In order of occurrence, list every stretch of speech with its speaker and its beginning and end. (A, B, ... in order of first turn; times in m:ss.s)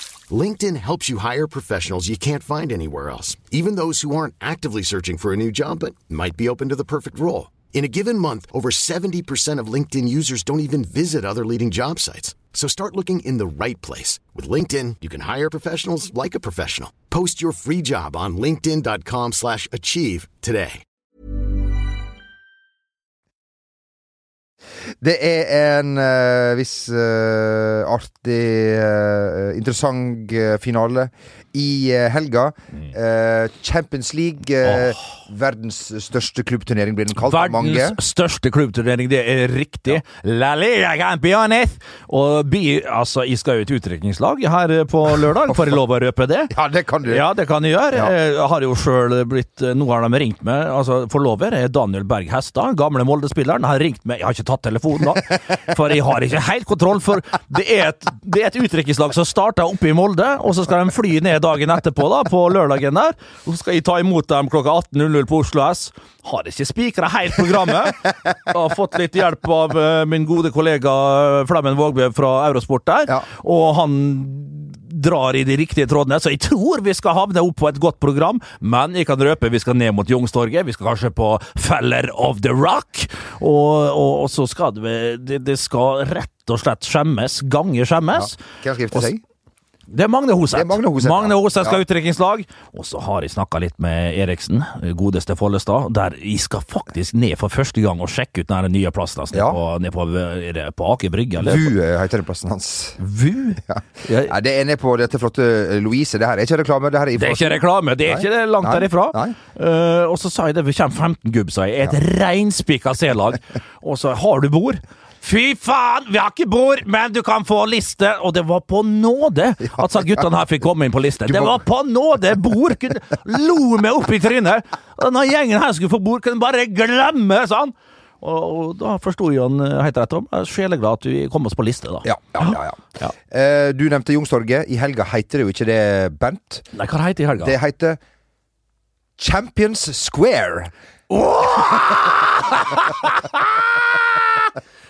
0:00.3-0:20.8 A
0:25.0-0:38.0 B
0:34.7-0:34.9 C
0:37.2-0:46.5 C
0:46.5-0:47.3 B
0:47.0-1:29.1 C
1:28.1-1:29.2 B
1:29.9-1:41.7 C
1:30.5-1:31.8 B
1:39.3-1:39.6 B
1:41.4-1:43.0 B
1:43.0-1:44.3 C
1:43.7-1:49.4 B
1:47.2-2:13.1 C
2:01.3-2:01.6 B
2:12.0-2:16.7 B
2:16.7-2:17.6 C
2:17.4-2:18.0 B
2:19.2-2:20.7 B
2:21.1-2:24.5 C